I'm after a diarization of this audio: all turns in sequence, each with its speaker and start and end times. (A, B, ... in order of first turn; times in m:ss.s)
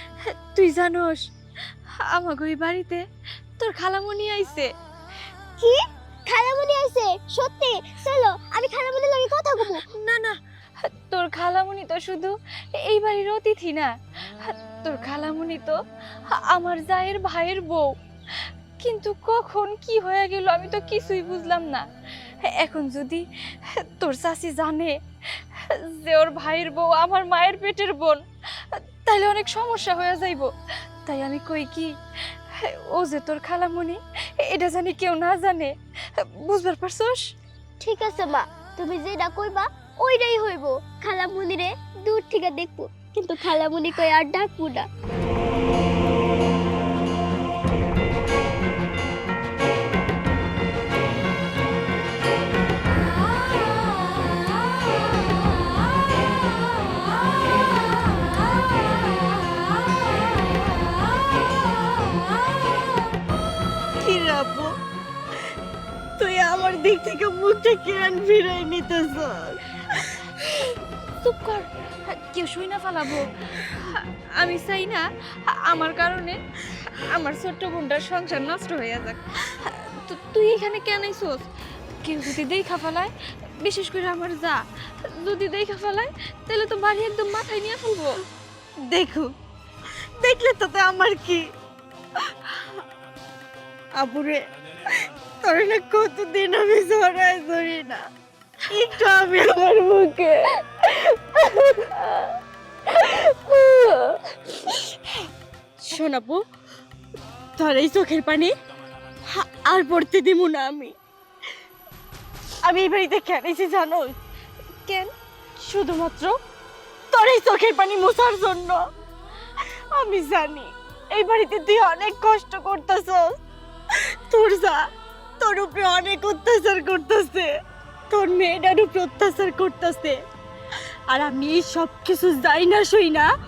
0:00.2-0:01.3 A
0:02.1-0:03.0 A
0:03.6-0:04.7 A
0:05.6-0:09.8 B
0:09.9-0:15.8 A
0:16.3-0:21.8 A
0:22.4-0:30.5 A
0:31.0-0:37.2 A
0:37.8-0:44.9 B
1:04.0-1:04.7 C
1:06.2-1:10.1 C
1:11.2-1:16.4 A
1:17.1-1:21.4 A
1:22.0-1:28.2 A
1:28.8-1:29.3 C
1:30.2-1:31.5 C
1:34.0-1:38.1 C
1:38.7-1:42.3 C
1:42.9-1:45.0 C
1:45.8-1:46.5 C
1:47.6-1:48.5 C
1:49.3-1:50.9 C
1:52.6-1:54.1 C
1:55.6-1:56.4 C
1:57.1-1:58.8 C
1:59.9-2:03.4 C
2:04.3-2:04.8 C
2:05.4-2:07.5 C
2:08.1-2:10.2 C
2:11.1-2:13.3 C